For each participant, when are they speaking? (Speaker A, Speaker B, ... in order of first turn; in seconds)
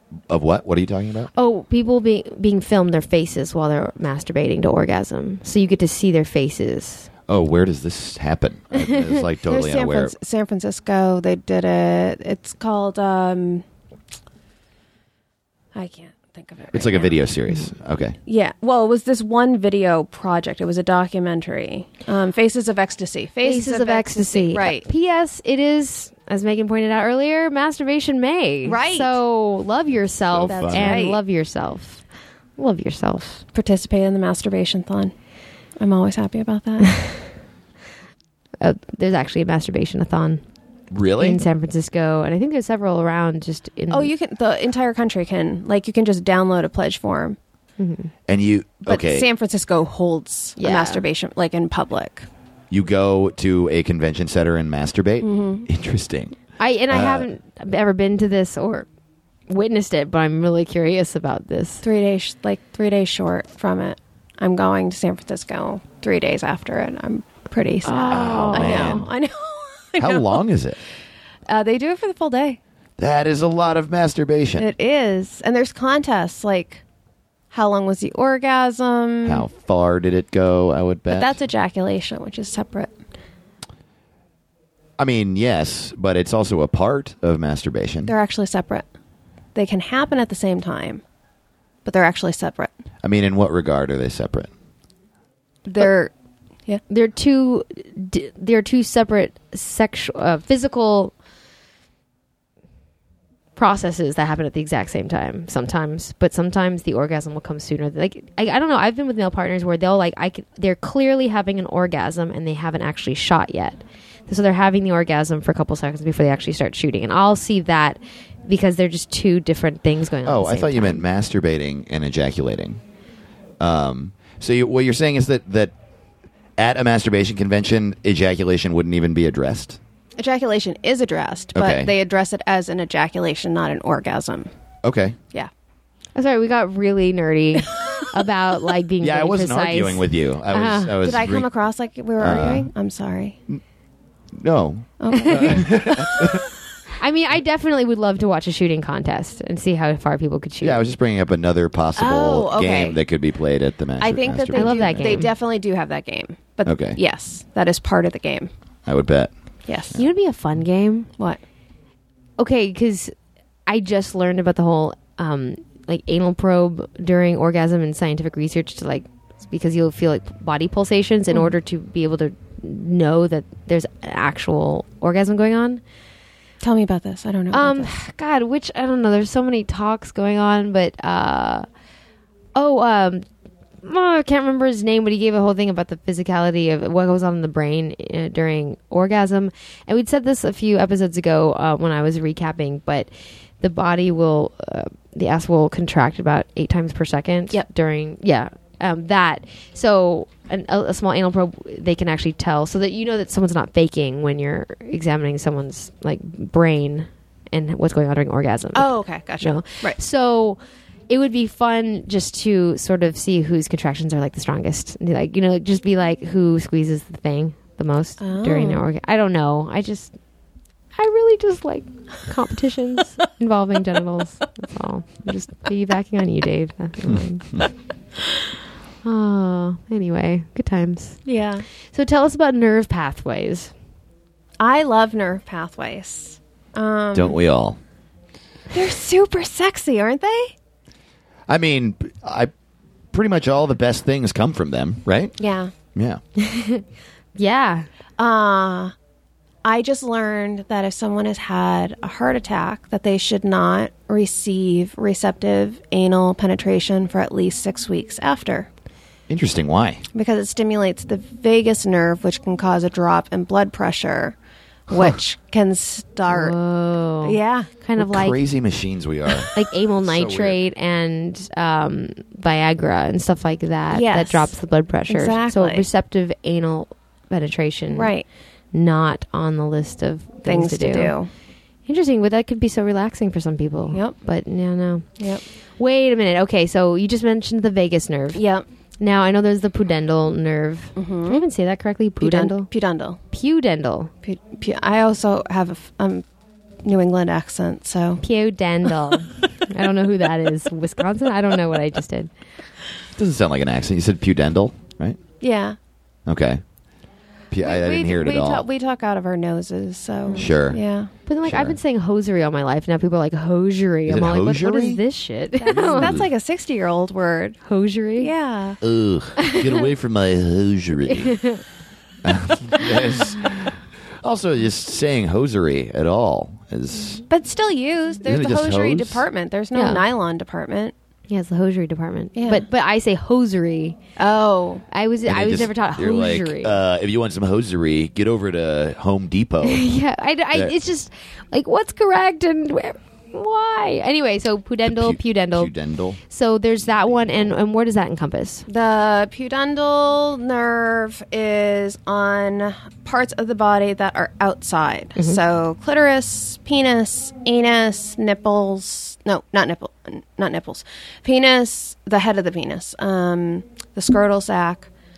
Speaker A: 0.3-1.3, 7.3-10.1, 16.7-18.2, 30.3-30.9, 40.9-41.4, 48.3-49.3, 52.7-56.4, 56.9-57.3, 68.1-69.0, 70.0-70.8, 73.0-74.7, 79.2-81.3, 85.0-88.1, 93.0-94.5, 120.2-122.8, 123.6-125.7, 126.6-129.8, 131.6-131.9, 134.8-135.2, 139.0-141.5, 142.2-142.7, 144.3-146.4, 150.6-155.2, 156.7-157.0, 158.9-159.3, 237.1-237.8, 241.5-242.5, 243.1-245.3, 245.9-246.2, 259.3-260.0, 268.0-270.6, 303.2-305.2, 306.3-306.6, 307.5-308.6, 310.4-310.8, 311.4-311.8, 314.1-315.0, 315.7-316.3, 318.8-321.4, 322.2-327.2, 328.2-329.2, 335.3-339.9, 344.9-346.2, 347.0-347.4
Speaker B: 1.4-7.1, 23.4-32.0, 32.6-33.4, 38.6-40.4, 41.2-44.1, 47.8-48.1, 50.6-51.0, 56.6-58.9, 59.5-61.8, 67.8-69.1, 96.9-101.1, 103.6-121.0, 136.2-141.0, 145.1-145.6, 147.0-150.8, 154.5-155.3, 159.9-161.1, 162.4-163.1, 163.7-175.8, 177.5-181.7, 182.6-183.3, 183.8-220.2, 220.9-227.7, 229.0-231.2, 231.9-233.7, 246.4-247.9, 266.3-268.4, 269.5-278.1, 278.7-281.2, 281.9-285.1, 285.8-288.4, 289.0-292.7, 293.3-294.1, 298.2-302.3, 311.3-316.2, 317.7-318.3, 319.4-319.9, 321.1-321.6, 329.7-330.0, 331.3-334.0, 334.9-336.8, 339.6-345.7, 346.3-348.7
Speaker C: 9.5-13.7, 15.8-17.2, 18.3-24.9, 28.6-29.2, 30.5-31.2, 33.5-35.1, 35.8-37.0, 43.9-47.4, 48.9-52.3, 55.2-55.7, 61.8-70.4, 71.5-72.6, 74.6-76.8, 77.5-79.5, 81.1-82.9, 88.1-88.9, 89.5-91.0, 91.8-92.7, 95.7-96.1, 130.2-134.5, 141.0-143.4, 145.0-146.2, 152.0-153.0, 154.0-158.5, 159.7-159.9, 176.6-177.9, 208.8-210.0, 218.2-218.8, 231.3-231.7, 234.6-237.4, 238.7-240.5, 245.4-245.7, 248.2-248.9, 249.6-258.7, 260.1-264.4, 264.9-266.6, 267.2-267.7, 273.9-274.5, 275.1-275.9, 277.9-278.2, 280.4-281.3, 288.3-288.7, 291.0-291.4, 292.2-293.2, 294.2-296.2, 296.8-298.2, 305.4-305.8, 307.6-311.1, 315.6-317.6, 318.2-318.8, 327.3-330.9, 332.4-332.6, 334.2-334.9, 348.7-364.9